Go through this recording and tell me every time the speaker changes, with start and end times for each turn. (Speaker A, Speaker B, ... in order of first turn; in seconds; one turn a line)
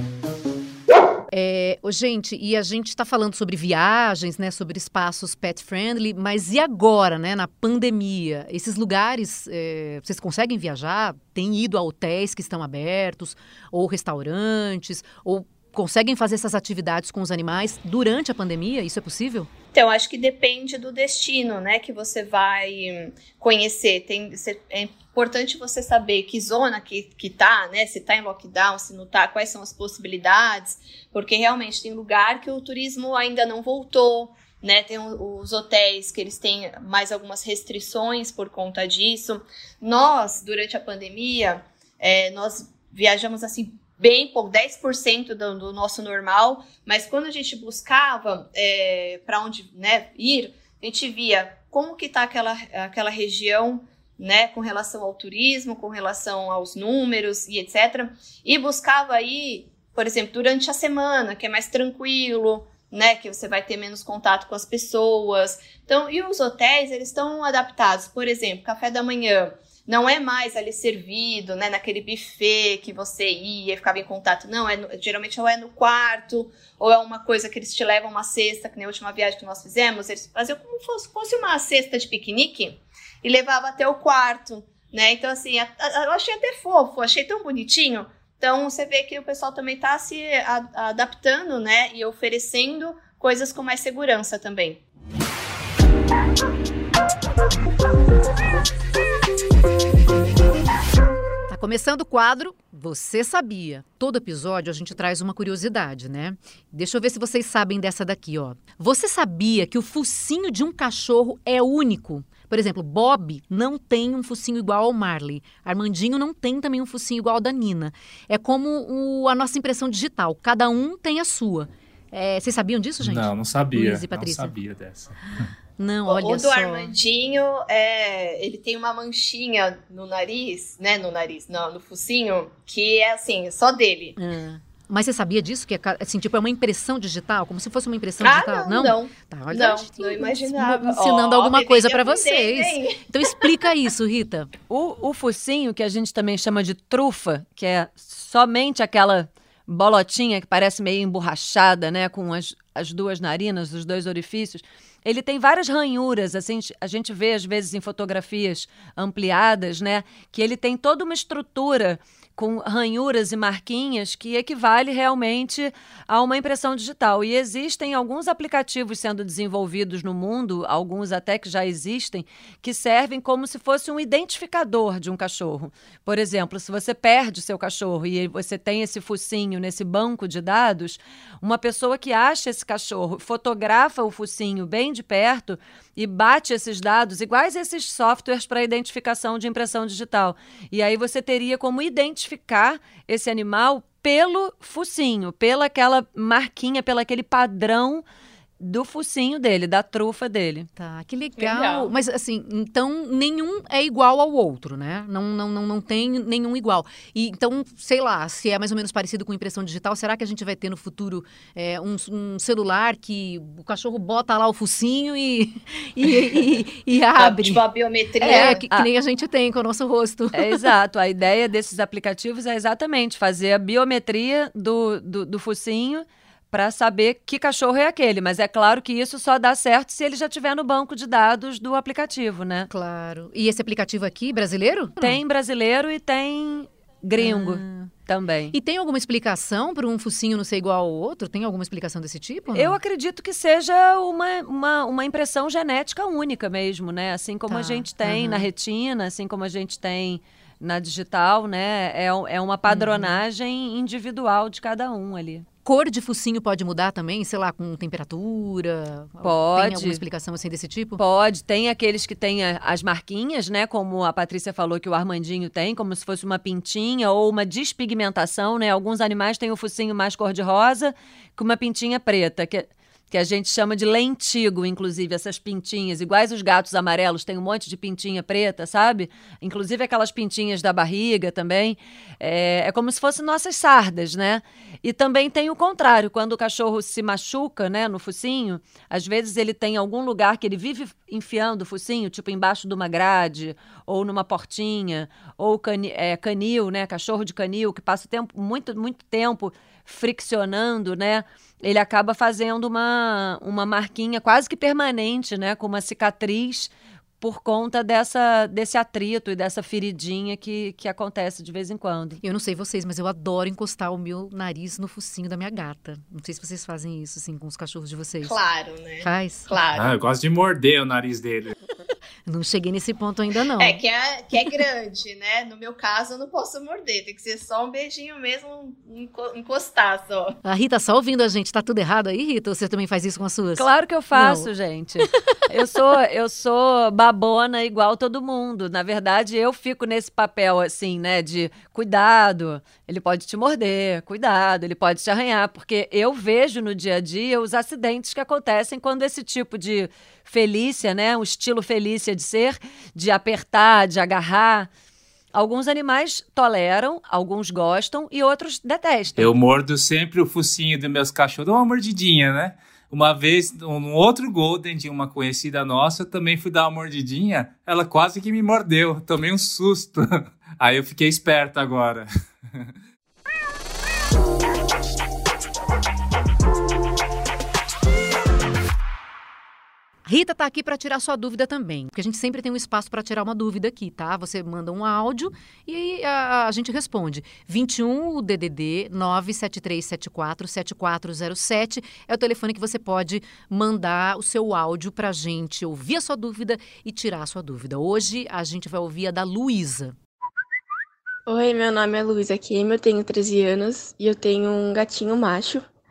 Speaker A: 1.3-19.5
Speaker B: 19.7-94.8
Speaker A: 101.5-124.5
Speaker C: 123.0-125.2
Speaker A: 125.8-126.9
Speaker B: 126.1-134.2
Speaker A: 134.2-144.5
Speaker B: 138.2-143.5
Speaker D: 144.7-198.0
Speaker D: 198.6-200.7
Speaker A: 200.8-217.6
Speaker B: 201.4-201.9
Speaker B: 217.2-218.6
Speaker A: 218.2-220.7
Speaker D: 218.2-218.9
Speaker D: 220.3-232.7
Speaker A: 232.7-235.2
Speaker D: 235.0-238.5
Speaker A: 237.2-237.9
Speaker A: 238.5-242.8
Speaker D: 242.5-255.4
Speaker A: 247.5-248.5
Speaker A: 252.7-253.2
Speaker A: 255.6-261.0
Speaker D: 259.2-260.0
Speaker D: 261.0-312.2
Speaker A: 312.2-318.4
Speaker B: 318.2-319.9
Speaker A: 319.0-319.5
Speaker C: 319.7-321.5
Speaker A: 322.2-323.8
Speaker B: 323.6-330.4
Speaker A: 330.4-334.5
Speaker D: 333.6-354.7
Speaker D: 355.3-359.3
Speaker C: 359.1-372.7
Speaker A: 380.1-399.9
Speaker E: 401.3-405.7